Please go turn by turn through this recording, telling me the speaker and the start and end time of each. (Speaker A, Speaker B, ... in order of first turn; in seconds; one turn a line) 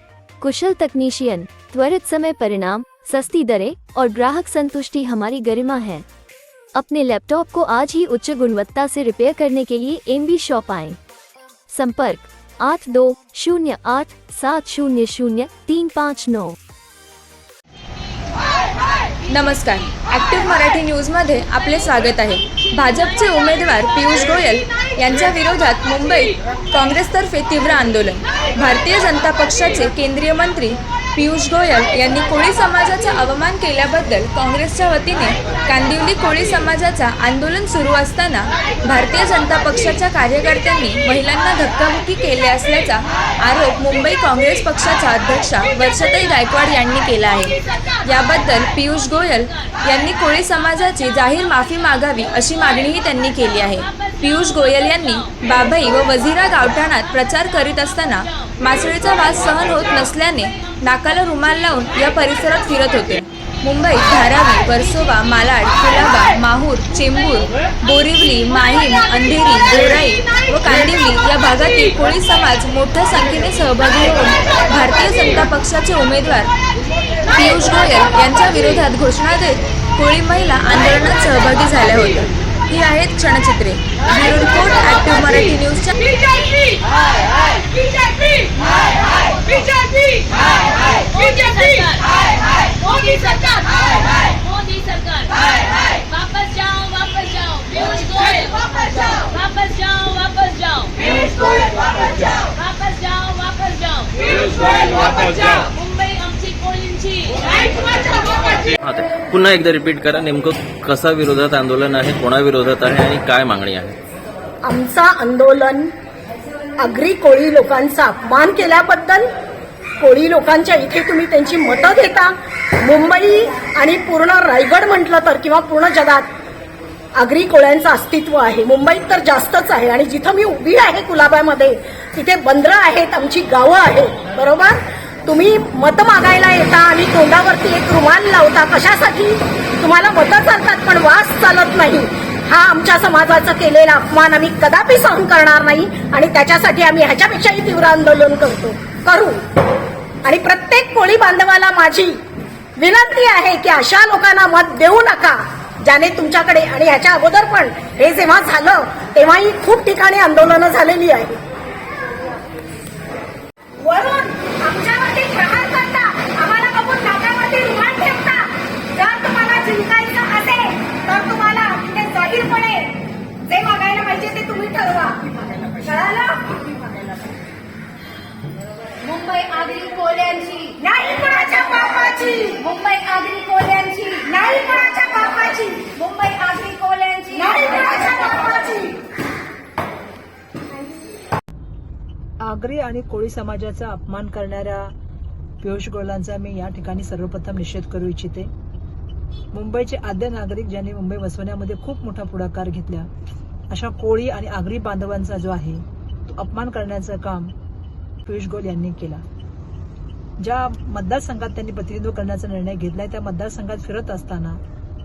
Speaker A: 0.4-6.1
Speaker A: 6.8-11.0
Speaker A: 11.7-16.6
Speaker B: 19.3-76.5
Speaker B: 77.3-86.4
Speaker C: 105.1-105.7
Speaker C: 108.3-114.0
Speaker D: 114.6-115.9
Speaker D: 116.8-119.3
Speaker D: 120.0-126.3
Speaker D: 127.2-149.4
Speaker D: 150.2-152.2
Speaker D: 152.8-161.4
Speaker D: 163.8-176.7
Speaker E: 179.0-180.8
Speaker D: 180.8-182.7
Speaker E: 182.6-185.1
Speaker D: 184.2-186.0
Speaker E: 186.0-188.6
Speaker D: 187.3-188.9
Speaker F: 192.4-194.9
Speaker F: 195.6-198.5
Speaker F: 199.5-203.1
Speaker F: 203.7-207.5
Speaker F: 208.3-209.2
Speaker F: 210.4-214.6